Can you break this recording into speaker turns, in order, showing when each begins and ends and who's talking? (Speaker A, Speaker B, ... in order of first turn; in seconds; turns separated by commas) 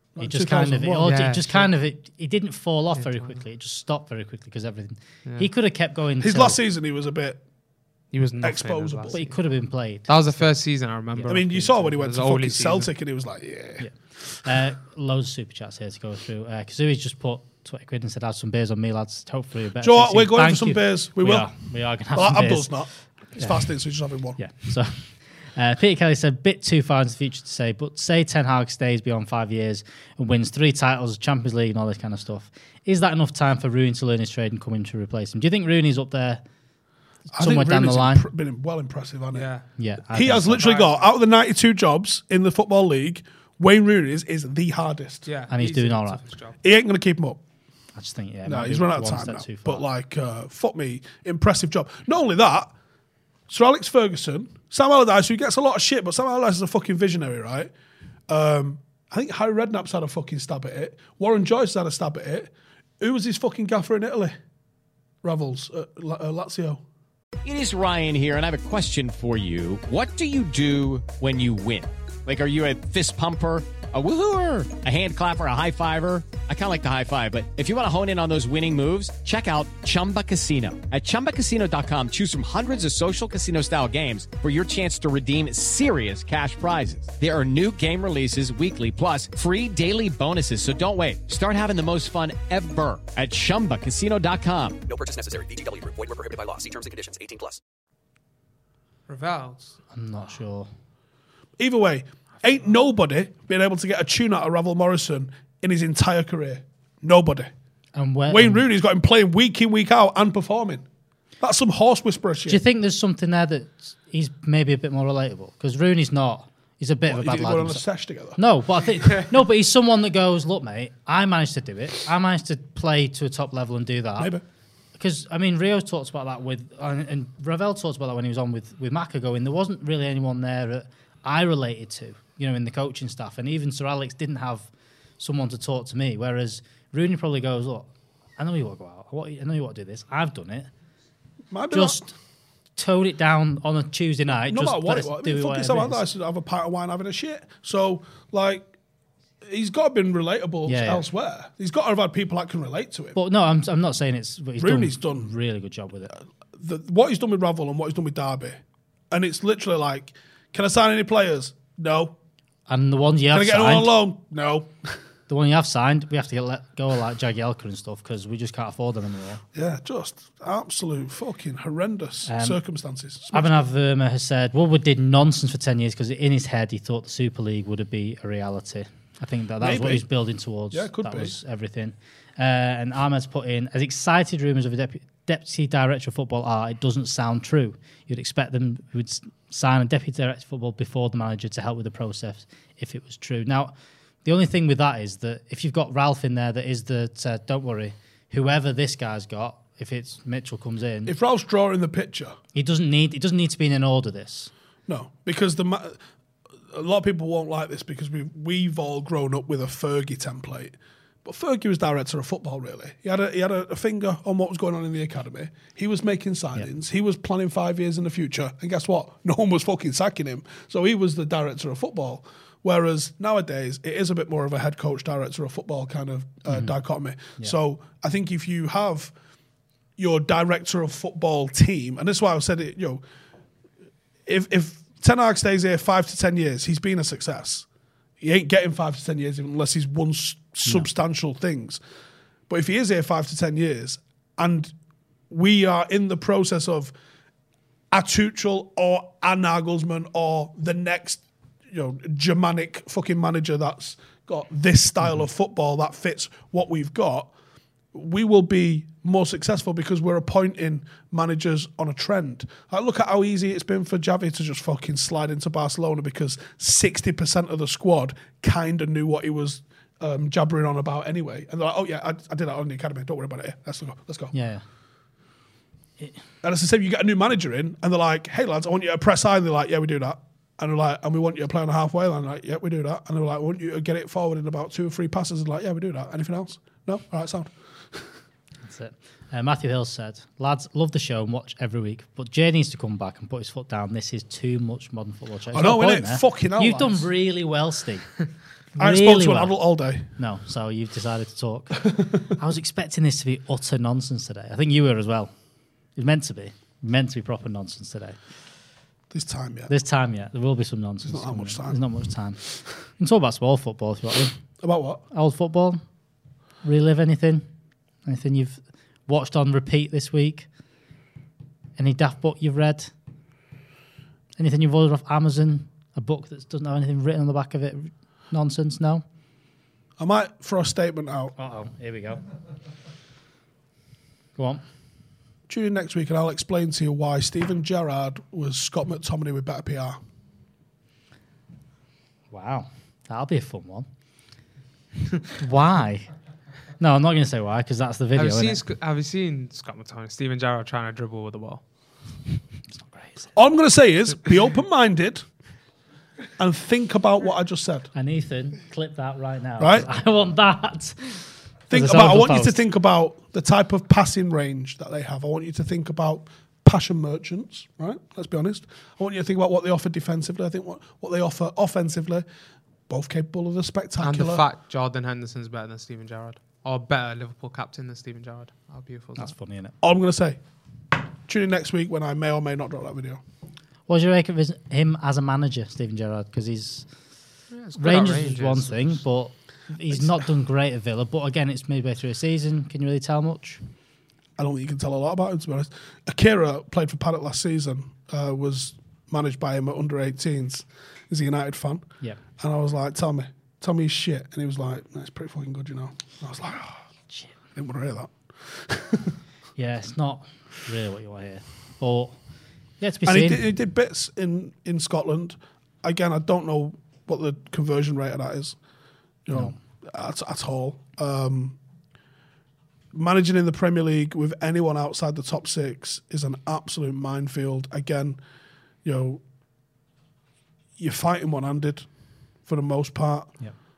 Speaker A: 0.1-1.1, Speaker B: 0.2-6.6, Speaker C: 1.0-1.6, Speaker C: 3.0-3.4, Speaker A: 6.2-7.4, Speaker C: 8.1-9.3, Speaker A: 8.4-9.1, Speaker B: 9.1-10.5, Speaker C: 10.1-12.9, Speaker B: 11.1-11.4, Speaker A: 11.3-13.8, Speaker B: 13.8-22.8, Speaker A: 19.8-21.5, Speaker A: 22.1-24.4, Speaker B: 23.4-23.8, Speaker B: 24.4-36.4, Speaker B: 37.3-38.3, Speaker A: 37.4-39.5, Speaker C: 39.3-39.7, Speaker B: 39.8-40.7, Speaker A: 40.1-45.3, Speaker C: 40.4-41.1, Speaker C: 45.2-46.6, Speaker B: 45.5-46.2, Speaker A: 46.6-47.4, Speaker B: 47.9-49.8, Speaker A: 48.5-52.7, Speaker A: 53.5-57.7, Speaker A: 58.3-62.5, Speaker A: 63.0-64.3, Speaker A: 65.2-66.8, Speaker D: 67.4-94.8, Speaker E: 94.8-97.6, Speaker C: 99.1-99.8, Speaker B: 99.9-100.7, Speaker A: 101.6-107.5, Speaker B: 107.9-108.7, Speaker A: 108.3-110.8, Speaker A: 111.4-112.6, Speaker B: 112.5-117.8, Speaker A: 117.1-118.4, Speaker B: 118.3-124.3, Speaker B: 125.0-137.9, Speaker B: 138.4-140.7, Speaker A: 141.5-142.0, Speaker B: 141.7-142.1, Speaker B: 142.8-146.0, Speaker A: 144.4-148.7, Speaker A: 149.4-153.2, Speaker B: 150.7-151.1, Speaker B: 153.1-156.1, Speaker A: 154.6-155.3, Speaker A: 156.6-158.6, Speaker A: 159.1-162.1, Speaker B: 162.7-163.9, Speaker A: 163.3-164.7, Speaker B: 165.3-169.4, Speaker A: 169.5-173.6, Speaker B: 172.2-172.6, Speaker B: 173.3-193.7, Speaker A: 179.6-180.1, Speaker A: 180.7-181.3, Speaker B: 194.2-201.1, Speaker A: 201.1-202.3, Speaker B: 202.5-204.5, Speaker A: 204.9-205.9, Speaker A: 206.7-210.7, Speaker A: 211.2-229.1, Speaker B: 226.5-226.8, Speaker A: 230.0-233.0, Speaker A: 234.3-237.7, Speaker A: 238.2-241.8, Speaker A: 242.5-244.7, Speaker A: 245.3-246.9, Speaker A: 247.9-257.3, Speaker A: 257.9-274.3, Speaker B: 274.3-274.6, Speaker A: 276.4-287.5, Speaker B: 288.6-298.1, Speaker A: 295.5-297.1, Speaker B: 298.7-299.6, Speaker A: 298.8-300.0, Speaker B: 300.1-305.3, Speaker B: 305.9-308.2, Speaker A: 309.1-309.7, Speaker B: 309.7-312.4, Speaker A: 311.1-311.8, Speaker B: 313.0-314.4, Speaker A: 314.6-315.0, Speaker B: 315.1-315.8, Speaker B: 316.6-317.4, Speaker B: 318.0-320.5, Speaker B: 321.8-322.9, Speaker B: 324.4-329.0, Speaker A: 330.0-331.3, Speaker B: 331.4-332.2, Speaker B: 334.4-334.6, Speaker A: 335.5-340.0, Speaker B: 342.3-343.9, Speaker B: 345.4-346.1, Speaker B: 346.8-348.6, Speaker C: 348.1-351.6, Speaker B: 352.9-353.3, Speaker A: 353.3-355.2, Speaker A: 356.4-357.9, Speaker B: 357.9-362.6, Speaker A: 359.6-359.9, Speaker A: 361.7-372.2, Speaker A: 372.9-374.4, Speaker C: 374.0-379.3, Speaker B: 379.2-379.7, Speaker A: 379.8-380.4, Speaker A: 381.3-383.2, Speaker B: 383.9-386.9, Speaker C: 387.5-389.0, Speaker B: 387.7-393.6, Speaker A: 394.4-401.8, Speaker A: 402.4-406.8, Speaker A: 407.5-408.1, Speaker A: 408.7-409.1, Speaker B: 409.6-412.1, Speaker B: 412.8-413.4, Speaker A: 413.0-418.5, Speaker A: 419.2-421.6, Speaker A: 422.9-428.2, Speaker A: 428.8-429.2, Speaker A: 430.8-431.8, Speaker A: 432.4-433.4